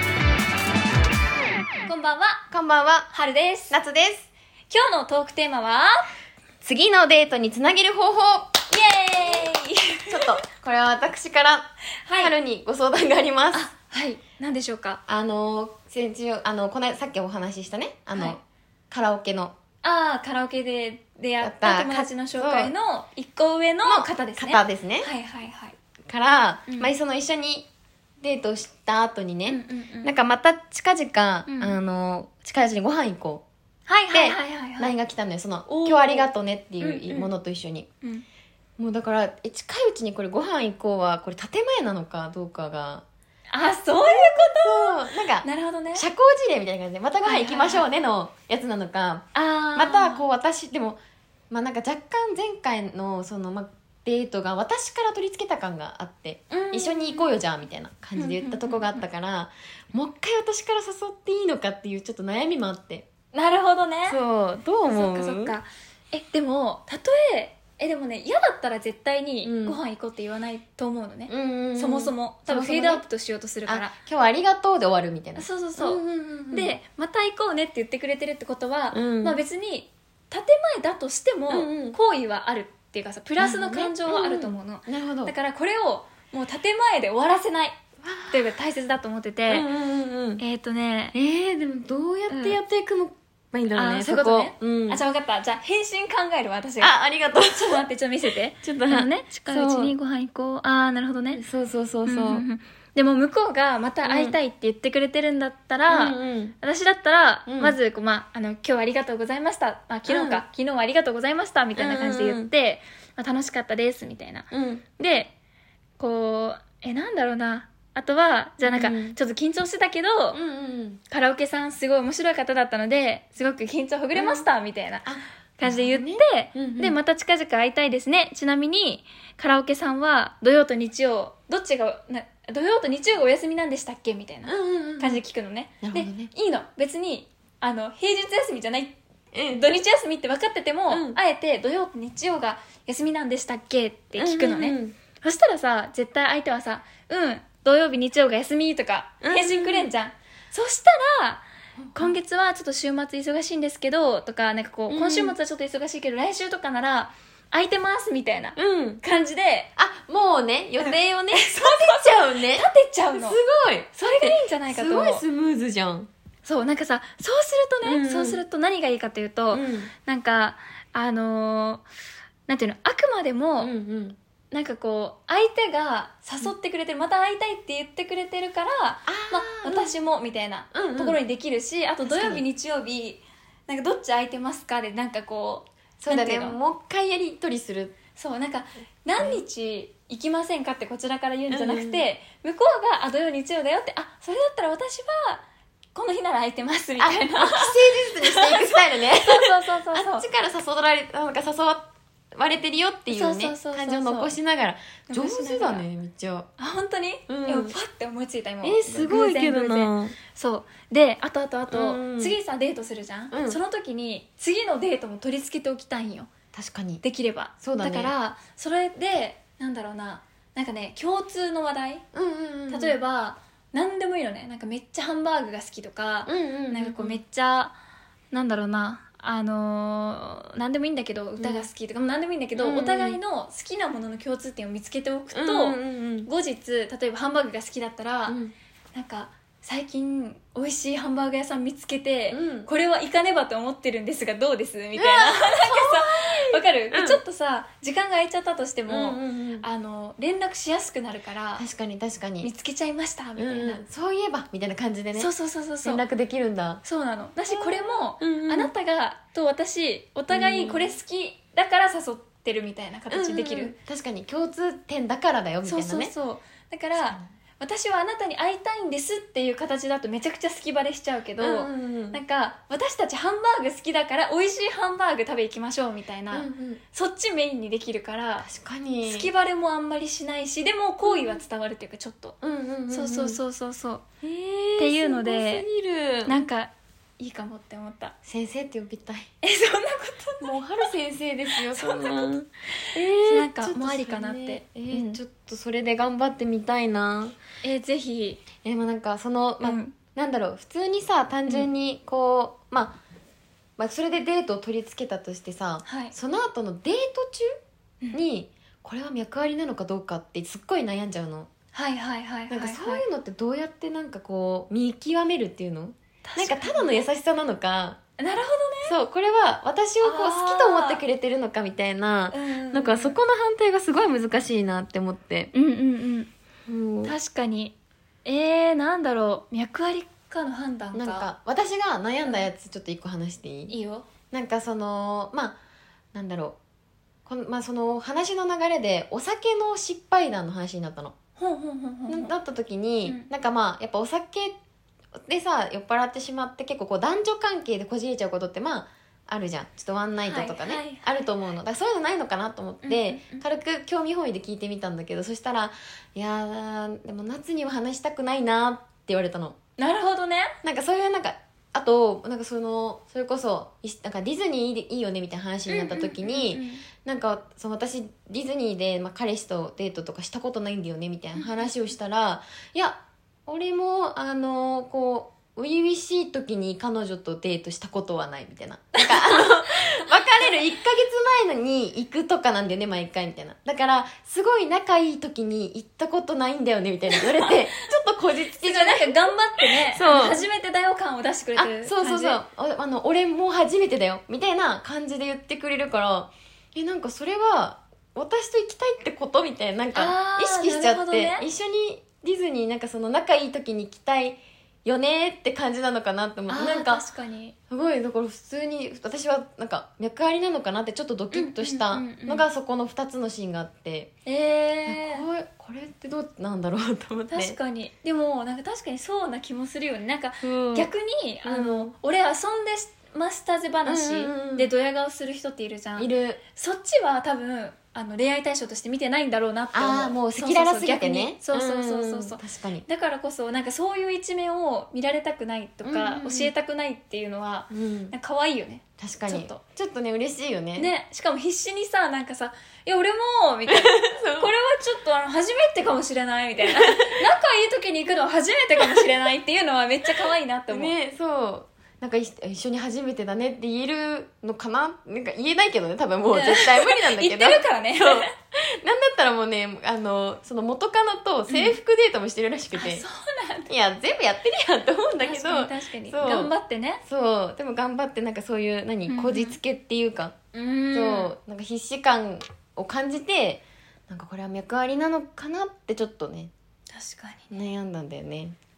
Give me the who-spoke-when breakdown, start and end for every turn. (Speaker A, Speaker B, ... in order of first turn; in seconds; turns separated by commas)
Speaker A: 1.9-2.5, Speaker B: 2.5-3.1, Speaker A: 3.1-3.8, Speaker B: 3.7-4.3, Speaker A: 4.7-6.1, Speaker B: 6.6-8.6, Speaker A: 8.7-10.3, Speaker B: 10.1-13.7, Speaker A: 12.0-12.3, Speaker A: 13.5-15.0, Speaker B: 15.1-19.6, Speaker A: 19.8-25.8, Speaker B: 21.4-22.7, Speaker B: 23.9-25.1, Speaker B: 26.1-27.7, Speaker A: 26.7-26.9, Speaker B: 28.2-33.4, Speaker A: 29.5-30.1, Speaker A: 31.5-31.8, Speaker A: 33.9-35.0, Speaker B: 34.1-37.9, Speaker A: 35.7-36.3, Speaker A: 36.8-37.3, Speaker B: 38.8-43.0, Speaker A: 43.5-46.1, Speaker B: 44.0-51.0, Speaker A: 47.2-47.9, Speaker A: 49.3-50.2, Speaker B: 51.5-63.1, Speaker A: 56.5-57.3, Speaker A: 58.2-59.0, Speaker A: 63.3-64.2, Speaker B: 64.1-65.6, Speaker A: 64.9-73.9, Speaker B: 69.4-69.8, Speaker B: 71.3-73.0, Speaker B: 73.7-76.8, Speaker A: 75.4-76.0, Speaker A: 76.5-87.8, Speaker B: 78.9-79.4, Speaker B: 81.5-82.0, Speaker B: 83.4-85.3, Speaker B: 88.0-88.5, Speaker A: 88.3-89.7, Speaker B: 89.5-90.4, Speaker A: 90.4-91.2, Speaker B: 91.1-95.0, Speaker A: 92.3-92.6, Speaker A: 93.8-96.9, Speaker B: 96.8-97.8, Speaker A: 97.5-101.4, Speaker B: 98.6-100.0, Speaker B: 101.3-102.5, Speaker A: 102.0-115.3, Speaker B: 104.0-104.4, Speaker B: 105.9-106.5, Speaker B: 107.5-107.8, Speaker B: 110.1-110.4, Speaker B: 111.8-112.5, Speaker B: 114.5-114.8, Speaker A: 116.0-120.4, Speaker B: 118.6-119.2, Speaker B: 120.3-121.0, Speaker A: 121.1-139.0, Speaker B: 124.1-124.5, Speaker B: 125.0-127.0, Speaker B: 134.5-135.2, Speaker B: 135.8-136.3, Speaker B: 139.3-139.7, Speaker A: 139.5-159.7, Speaker B: 140.9-141.2, Speaker B: 144.2-145.0, Speaker B: 149.2-149.9, Speaker B: 151.8-152.1, Speaker B: 154.9-155.4, Speaker B: 158.6-159.0, Speaker B: 159.8-166.1, Speaker A: 160.8-163.4, Speaker A: 163.9-165.2, Speaker A: 166.4-171.8, Speaker B: 167.8-168.4, Speaker B: 169.5-169.9, Speaker A: 172.5-173.7, Speaker B: 173.6-174.2, Speaker A: 174.5-186.6, Speaker B: 179.1-179.9, Speaker B: 180.7-181.2, Speaker B: 182.0-182.4, Speaker B: 186.0-187.9, Speaker A: 188.2-195.4, Speaker B: 191.5-192.0, Speaker A: 195.9-200.2, Speaker B: 197.0-206.5, Speaker A: 203.1-204.3, Speaker A: 205.1-205.8, Speaker A: 206.6-216.3, Speaker B: 207.3-207.8, Speaker B: 208.6-210.2, Speaker B: 211.7-212.4, Speaker B: 213.3-213.6, Speaker B: 216.5-217.0, Speaker A: 217.0-222.0, Speaker B: 217.6-218.1, Speaker B: 222.1-223.0, Speaker A: 222.7-227.8, Speaker B: 226.3-227.2, Speaker A: 228.3-238.4, Speaker B: 231.4-231.7, Speaker B: 232.6-233.2, Speaker B: 235.3-236.3, Speaker B: 238.3-238.5, Speaker A: 238.9-251.7, Speaker B: 242.3-242.7, Speaker B: 245.0-247.2, Speaker B: 248.9-249.7, Speaker B: 251.6-252.5, Speaker A: 252.4-253.8, Speaker B: 253.4-255.3, Speaker A: 255.2-256.0, Speaker B: 255.8-256.8, Speaker A: 256.8-263.8, Speaker B: 257.5-258.7, Speaker B: 260.3-261.0, Speaker B: 263.1-266.1, Speaker A: 265.6-278.5, Speaker B: 266.9-267.3, Speaker B: 271.4-272.2, Speaker B: 276.3-276.8, Speaker B: 278.4-279.3, Speaker A: 279.1-282.4, Speaker B: 281.0-281.4, Speaker B: 282.4-283.4, Speaker A: 282.9-284.0, Speaker B: 284.2-286.4, Speaker A: 284.8-285.7, Speaker A: 286.3-288.1, Speaker B: 288.3-289.3, Speaker A: 289.4-290.9, Speaker B: 290.4-297.4, Speaker A: 291.5-295.2, Speaker A: 297.6-298.4, Speaker B: 298.6-303.0, Speaker A: 299.6-299.9, Speaker B: 303.8-307.5, Speaker A: 305.8-306.1, Speaker B: 308.1-311.5, Speaker A: 311.7-313.0, Speaker B: 312.5-318.0, Speaker A: 316.2-317.0, Speaker A: 318.2-319.0, Speaker B: 318.9-325.5, Speaker A: 320.0-321.0, Speaker A: 322.3-323.2, Speaker A: 325.5-326.3, Speaker B: 326.7-327.2, Speaker A: 327.0-331.3, Speaker B: 330.9-333.8, Speaker A: 333.7-334.1, Speaker B: 334.3-335.6, Speaker B: 336.1-336.6, Speaker B: 337.3-341.1, Speaker A: 341.4-342.3, Speaker B: 342.1-344.6, Speaker A: 343.0-343.3, Speaker B: 345.2-359.6, Speaker A: 350.2-351.1, Speaker A: 352.8-353.4, Speaker A: 359.8-360.6, Speaker B: 360.6-390.4, Speaker A: 365.7-366.9, Speaker A: 371.4-371.7, Speaker A: 379.0-380.5, Speaker A: 387.1-387.8, Speaker A: 388.6-392.4, Speaker B: 391.6-407.1, Speaker A: 399.9-401.5, Speaker A: 406.5-407.6, Speaker B: 407.7-414.1, Speaker A: 411.3-412.5, Speaker A: 414.2-415.3, Speaker B: 414.9-417.6, Speaker A: 417.3-439.6, Speaker B: 420.4-420.9, Speaker B: 421.4-421.9, Speaker B: 423.9-424.7, Speaker B: 426.0-426.4, Speaker B: 429.7-432.9, Speaker B: 435.8-436.5, Speaker B: 437.7-438.1, Speaker B: 439.0-440.9, Speaker A: 440.8-450.9, Speaker B: 443.7-444.5, Speaker B: 446.6-447.3, Speaker B: 450.7-463.1, Speaker A: 456.3-458.3, Speaker A: 461.5-461.8, Speaker A: 462.7-463.7, Speaker B: 463.7-466.5, Speaker A: 465.2-467.0, Speaker B: 467.1-470.4, Speaker A: 469.1-469.6, Speaker A: 470.5-471.3, Speaker B: 470.9-476.5, Speaker A: 476.9-477.5, Speaker B: 477.5-478.6